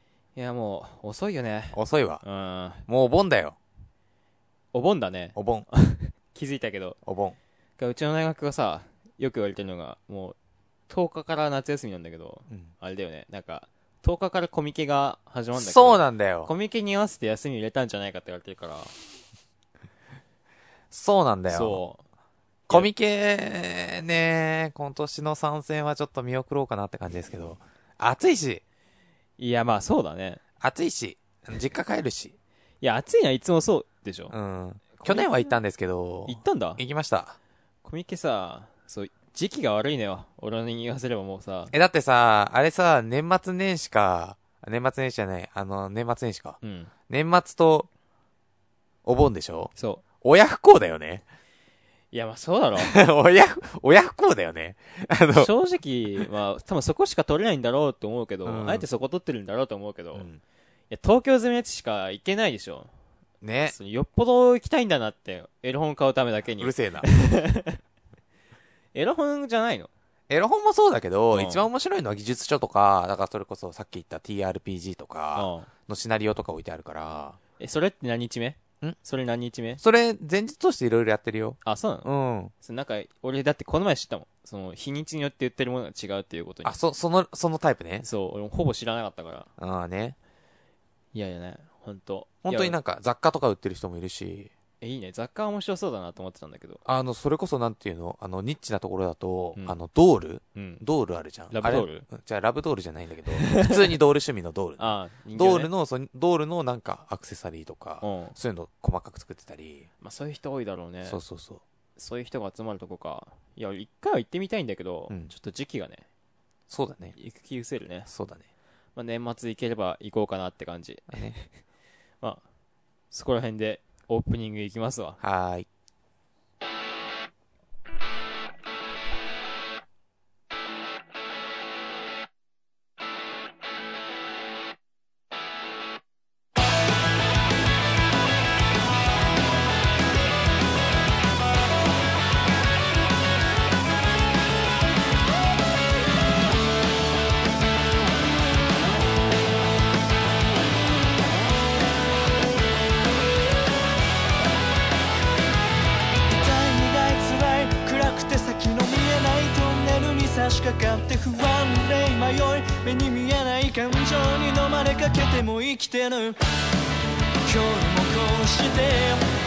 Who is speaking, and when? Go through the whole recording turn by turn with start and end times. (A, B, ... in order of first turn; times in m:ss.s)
0:00.4-0:02.9 A
0:01.7-0:02.2 B
0:02.9-0:03.6 B
0:04.7-0:07.0 A
0:05.4-0:05.7 B
0:07.0-0:07.4 B
0:07.8-0:10.4 A
0:10.9-0:18.9 A
0:15.5-0:16.5 B
0:20.9-0:21.8 B
0:21.5-0:22.0 A
0:22.7-0:28.6 B
0:29.4-0:30.4 A
0:30.6-0:32.4 B
0:32.8-0:34.4 A
0:34.3-0:37.4 B
0:34.9-0:35.6 A
0:36.3-0:36.8 A
0:37.8-0:41.7 A
0:41.7-0:46.6 B
0:46.6-0:46.9 A
0:47.1-0:47.9 B
0:49.0-0:51.2 B
0:49.8-0:50.0 A
0:52.1-0:53.0 A
0:52.8-0:55.5 B
0:55.3-1:00.3 A
0:58.5-0:58.9 B
1:00.2-1:00.4 B
1:00.9-1:02.9 A
1:03.4-1:03.8 B
1:03.7-1:07.8 A
1:06.6-1:07.1 B
1:08.9-1:09.9 A
1:10.3-1:17.4 B
1:11.3-1:11.7 A
1:15.4-1:15.7 A
1:17.6-1:19.8 A
1:19.8-1:22.5 B
1:21.6-1:22.1 A
1:22.6-1:26.8 A
1:26.6-1:28.1 B
1:28.0-1:29.5 A
1:29.6-1:30.2 B
1:31.1-1:32.8 A
1:32.4-1:34.5 B
1:34.8-1:36.8 A
1:36.8-1:49.9 B
1:40.6-1:40.8 A
1:41.5-1:42.1 A
1:43.3-1:43.8 A
1:44.8-1:45.7 A
1:48.0-1:48.4 A
1:50.0-1:51.2 A
1:51.1-1:51.6 B
1:52.0-1:56.0 A
1:56.7-1:57.2 B
1:57.1-1:58.1 A
1:58.1-1:58.4 B
1:59.0-2:01.5 A
2:01.1-2:01.4 B
2:03.1-2:05.2 A
2:05.2-2:05.7 B
2:36.3-2:46.4 C
2:47.4-2:49.2 C